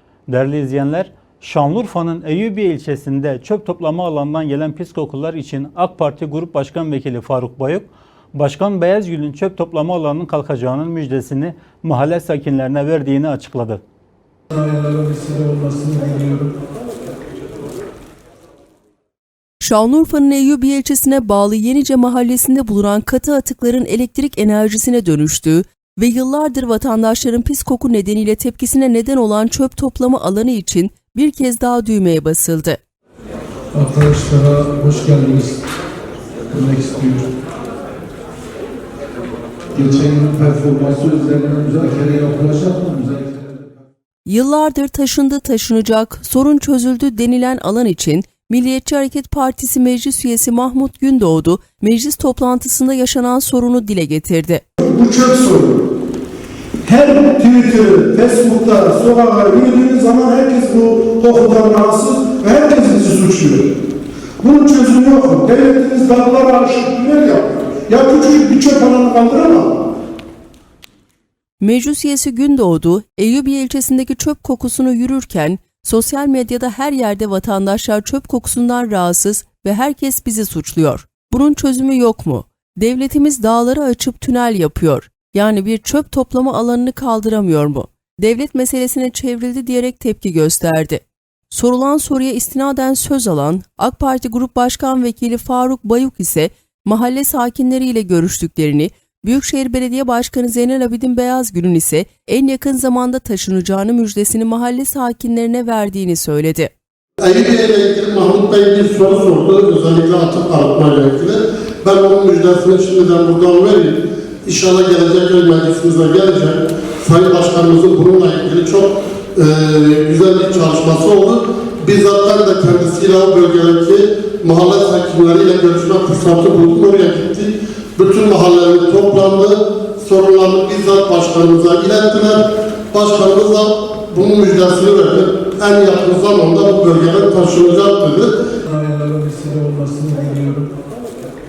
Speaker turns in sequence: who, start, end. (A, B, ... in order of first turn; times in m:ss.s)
0:00.3-0:13.8 A
0:14.5-0:16.6 B
0:19.6-0:32.8 C
0:33.7-0:35.6 B
0:36.5-0:37.3 B
0:39.7-0:43.4 B
0:44.2-0:54.6 C
0:54.8-0:55.8 D
0:56.8-1:03.7 D
1:04.4-1:09.8 D
1:11.6-1:46.7 C
1:47.2-2:18.3 E
2:18.6-2:20.7 B